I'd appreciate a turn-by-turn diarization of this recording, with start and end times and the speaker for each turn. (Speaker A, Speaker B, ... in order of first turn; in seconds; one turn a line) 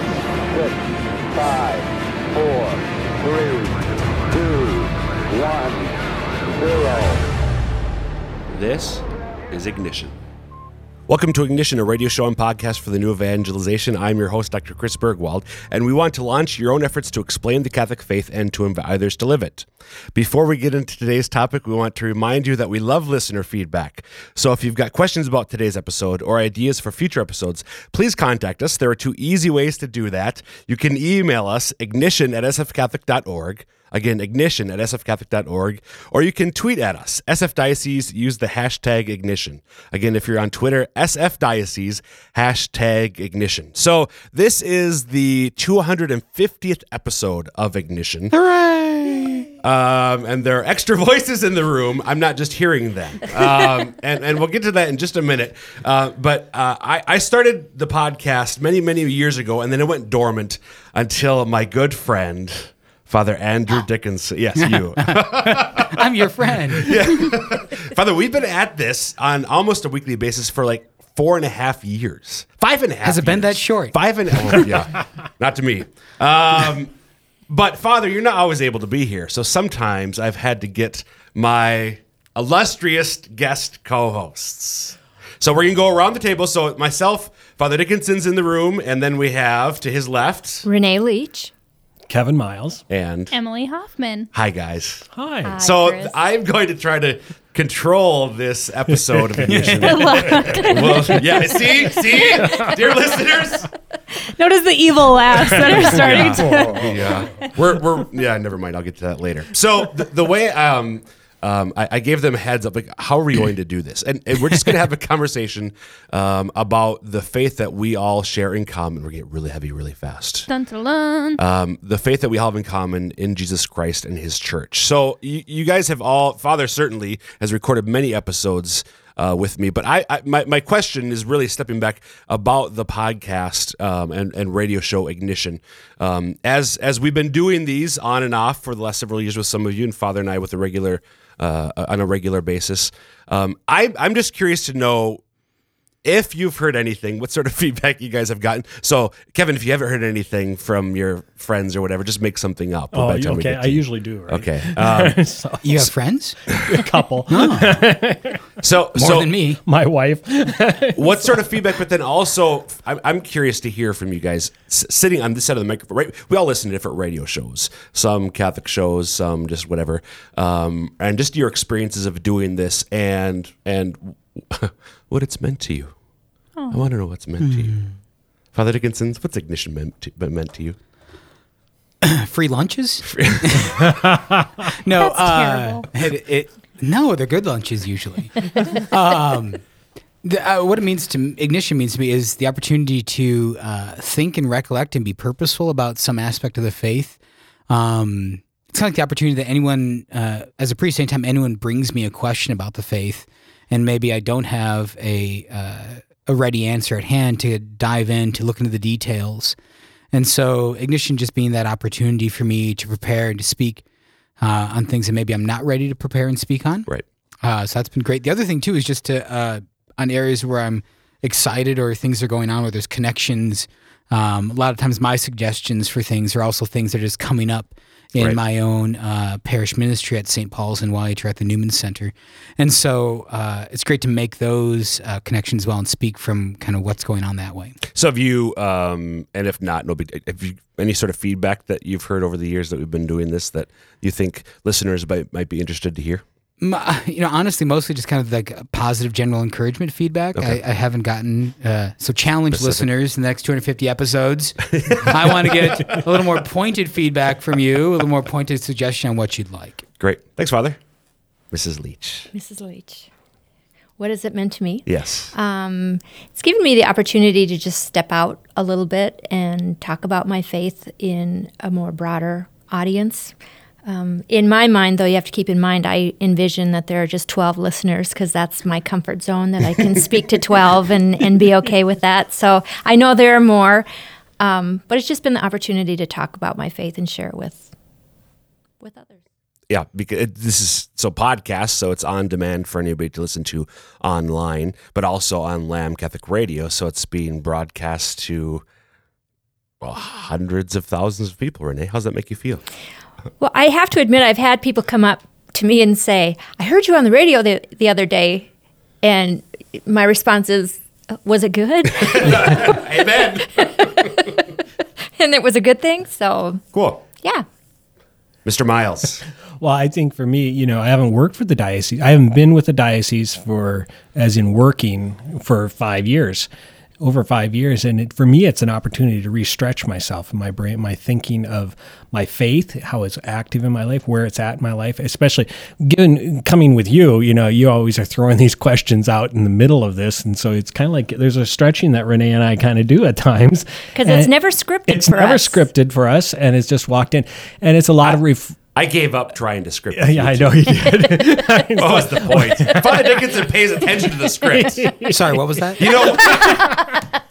Speaker A: 0.5-0.8
Speaker A: 1.3-7.2
Speaker B: 8.5-10.2
Speaker B: 11.1-48.3
Speaker C: 48.3-49.5
Speaker B: 49.6-66.1
Speaker C: 64.6-67.3
Speaker B: 66.7-76.9
Speaker C: 73.0-74.0
Speaker B: 77.5-90.6
Speaker D: 90.6-91.5
Speaker E: 92.1-92.8
Speaker B: 92.9-93.3
Speaker F: 93.3-94.3
Speaker B: 94.3-95.1
Speaker E: 95.1-95.6
Speaker D: 95.4-96.2
Speaker B: 95.6-103.7
Speaker E: 99.0-101.3
Speaker C: 99.4-100.1
Speaker F: 99.9-101.4
Speaker E: 102.4-102.7
Speaker F: 104.2-107.0
Speaker E: 105.4-107.5
Speaker B: 105.8-120.5
Speaker F: 120.5-121.4
Speaker B: 121.4-145.2
Speaker B: 146.0-155.2
Speaker E: 152.9-155.9
Speaker C: 155.6-156.5
Speaker E: 156.5-158.4
Speaker C: 157.3-157.8
Speaker B: 158.6-159.3
Speaker C: 158.9-159.6
Speaker E: 159.6-161.6
Speaker B: 160.9-176.0
Speaker F: 176.6-176.8
Speaker B: 176.7-177.9
Speaker C: 177.4-177.9
Speaker B: 178.5-180.8
Speaker C: 182.0-183.8
Speaker B: 183.2-183.8
Speaker E: 183.8-184.5
Speaker C: 184.8-189.6
Speaker F: 184.9-185.9
Speaker C: 190.2-197.2
Speaker C: 197.7-209.6
Speaker C: 210.1-213.8
Speaker C: 214.4-216.9
Speaker C: 217.4-237.8
Speaker B: 237.9-246.2
Speaker C: 246.6-259.9
Speaker B: 252.5-252.8
Speaker B: 254.7-256.0
Speaker B: 260.0-260.8
Speaker B: 261.5-262.3
Speaker D: 262.3-263.1
Speaker D: 264.0-283.9
Speaker B: 264.9-265.3
Speaker D: 284.4-287.7
Speaker D: 288.8-289.2
Speaker B: 289.7-298.6
Speaker B: 299.8-302.6
Speaker D: 303.4-308.5
Speaker D: 309.0-314.4
Speaker B: 312.0-314.3
Speaker D: 315.1-316.6
Speaker B: 316.7-317.0
Speaker D: 317.2-317.4
Speaker B: 318.4-319.2
Speaker E: 319.6-326.5
Speaker E: 327.0-344.3
Speaker D: 343.9-345.7
Speaker E: 344.9-348.6
Speaker B: 348.7-351.2
Speaker E: 349.9-353.1
Speaker B: 351.8-354.9
Speaker E: 353.9-357.0
Speaker C: 355.1-355.8
Speaker B: 355.8-356.6
Speaker D: 356.2-356.8